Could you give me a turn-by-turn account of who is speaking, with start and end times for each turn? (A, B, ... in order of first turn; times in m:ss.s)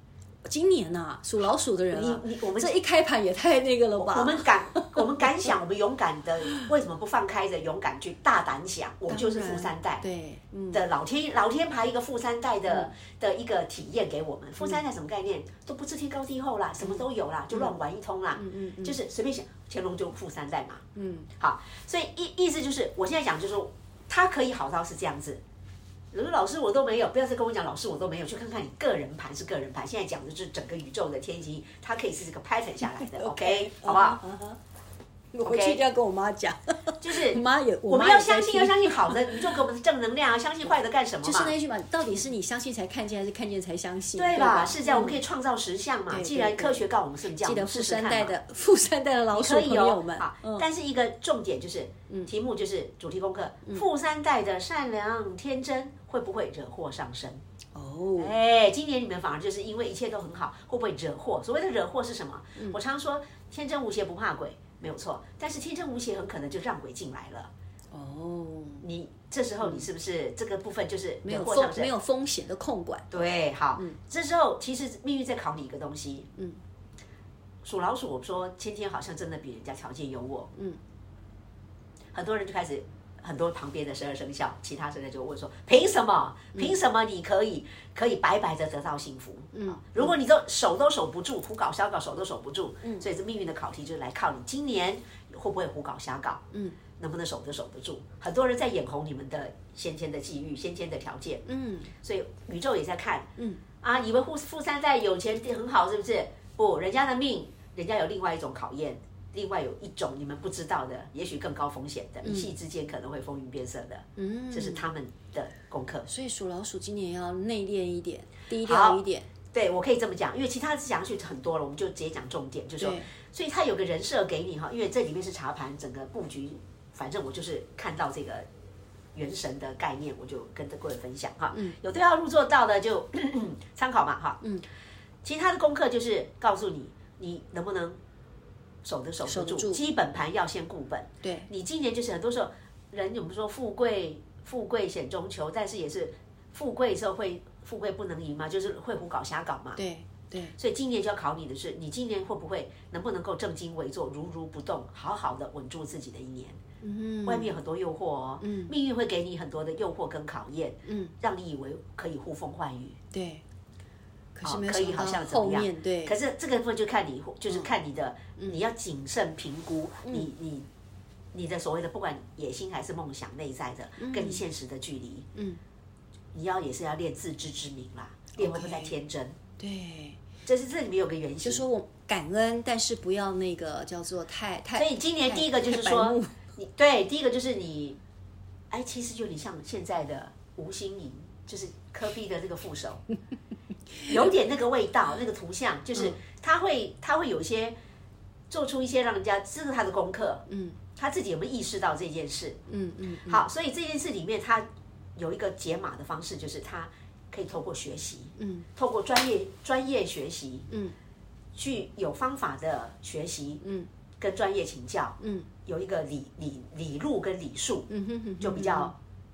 0:00.4-0:05.5 A
0:01.9-0:02.8 B
0:04.0-0:10.0 B
0:09.1-0:10.8 A
0:10.7-0:20.8 B
0:12.7-0:12.9 A
0:16.8-0:17.8 A
0:18.4-0:19.0 A
0:20.9-0:21.3 A
0:21.4-0:25.4 B
0:26.1-0:34.2 B
0:32.8-0:34.6 A
0:35.3-0:39.5 A
0:35.4-0:35.8 B
0:37.0-0:41.5 B
0:41.2-0:45.2 A
0:44.2-0:48.3 B
0:46.1-0:50.6 A
0:49.3-0:57.4 B
0:57.7-0:58.3 A
0:58.2-1:07.5 B
1:07.9-1:08.8 A
1:08.8-1:11.9 B
1:09.6-1:09.9 A
1:11.2-1:13.1 A
1:13.1-1:16.3 B
1:17.6-1:20.5 B
1:20.5-1:20.8 A
1:22.1-1:36.4 B
1:29.5-1:30.1 A
1:36.5-1:36.8 A
1:37.0-1:41.4 B
1:41.4-1:41.9 A
1:42.0-1:43.3 B
1:43.4-1:43.6 A
1:43.8-1:56.1 B
1:52.2-1:52.5 A
1:54.2-1:54.8 A
1:56.1-1:59.3 A
1:58.6-1:59.0 B
1:59.5-2:08.4 B
2:02.8-2:03.1 A
2:09.1-2:14.4 B
2:15.2-2:18.0 B
2:18.8-2:29.8 B
2:19.2-2:19.8 A
2:21.2-2:21.5 A
2:29.8-2:30.5 A
2:30.6-2:36.6 B
2:36.8-2:37.5 A
2:37.2-2:43.0 B
2:38.4-2:38.7 A
2:40.8-2:41.1 A
2:43.1-2:43.4 A
2:44.3-2:46.2 A
2:44.4-2:50.6 B
2:51.3-2:55.3 B
2:54.0-2:54.4 A
2:55.3-2:55.6 A
2:56.3-2:59.4 B
2:58.4-2:58.9 A
2:59.6-3:00.2 A
3:00.4-3:01.6 B
3:01.4-3:06.4 A
3:04.8-3:08.0 B
3:08.7-3:13.0 B
3:14.0-3:17.7 B
3:18.5-3:20.4 B
3:20.5-3:20.8 A
3:21.0-3:22.6 B
3:22.7-3:23.4 A
3:23.2-3:30.7 B
3:28.4-3:28.7 A
3:30.7-3:30.9 A
3:31.5-3:33.6 B
3:33.6-3:33.9 A
3:34.2-3:37.9 B
3:35.2-3:35.5 A
3:37.9-3:38.9 A
3:38.4-3:38.9 B